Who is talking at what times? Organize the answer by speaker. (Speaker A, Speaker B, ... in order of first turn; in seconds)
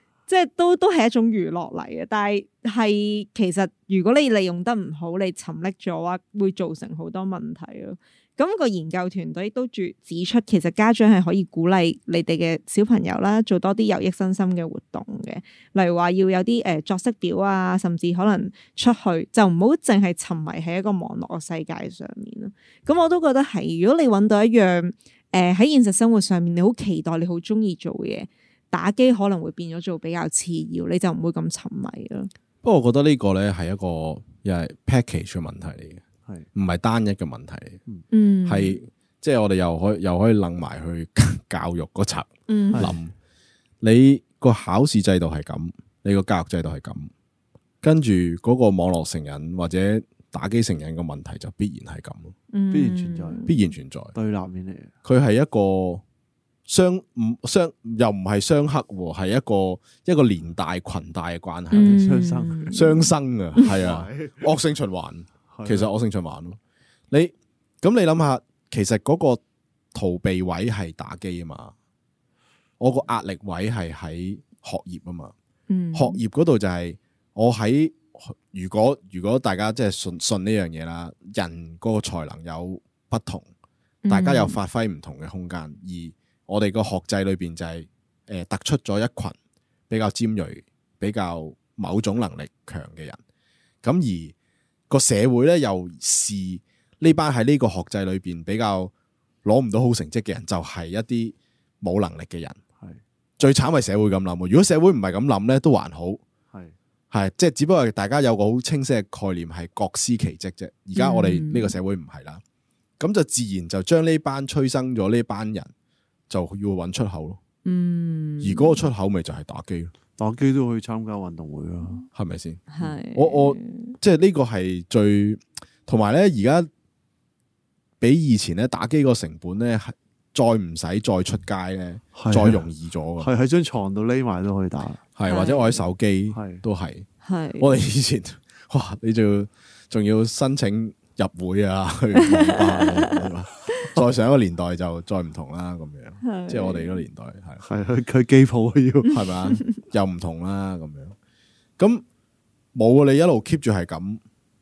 Speaker A: 0.3-32.3, 38.1-38.8, 42.5-42.9, 52.5-53.6, 61.7-63.7, 75.7-76.2, 84.0-84.6, 111.0-111.8, 117.7-118.8, 122.7-124.0, 135.2-135.9, 137.2-137.7, 142.2-143.8, 146.2-147.0, 149.5-149.8
Speaker B: 32.6-36.0, 36.5-37.8, 38.5-43.1, 43.8-47.1, 47.8-52.3, 53.5-54.1, 55.0-56.0, 56.7-62.0, 62.7-66.6, 67.1-69.4, 69.9-71.7, 72.8-75.3, 75.9-83.5, 84.1-89.4, 89.9-93.2, 93.8-94.3, 94.9-98.9, 99.5-102.6, 103.4-106.2, 107.1-112.4, 113.0-115.7, 116.3-117.4, 118.4-119.9, 122.1-126.7, 128.0-133.3, 135.2-137.1, 137.6-147.6, 149.1-151.2, 151.8-152.0, 152.7-154.2
Speaker C: 42.7-43.0, 52.7-53.4, 54.1-54.9, 61.8-62.7, 63.6-64.5, 65.5-65.9, 120.2-122.0, 132.2-132.6, 133.2-135.0, 136.3-136.6, 147.6-149.1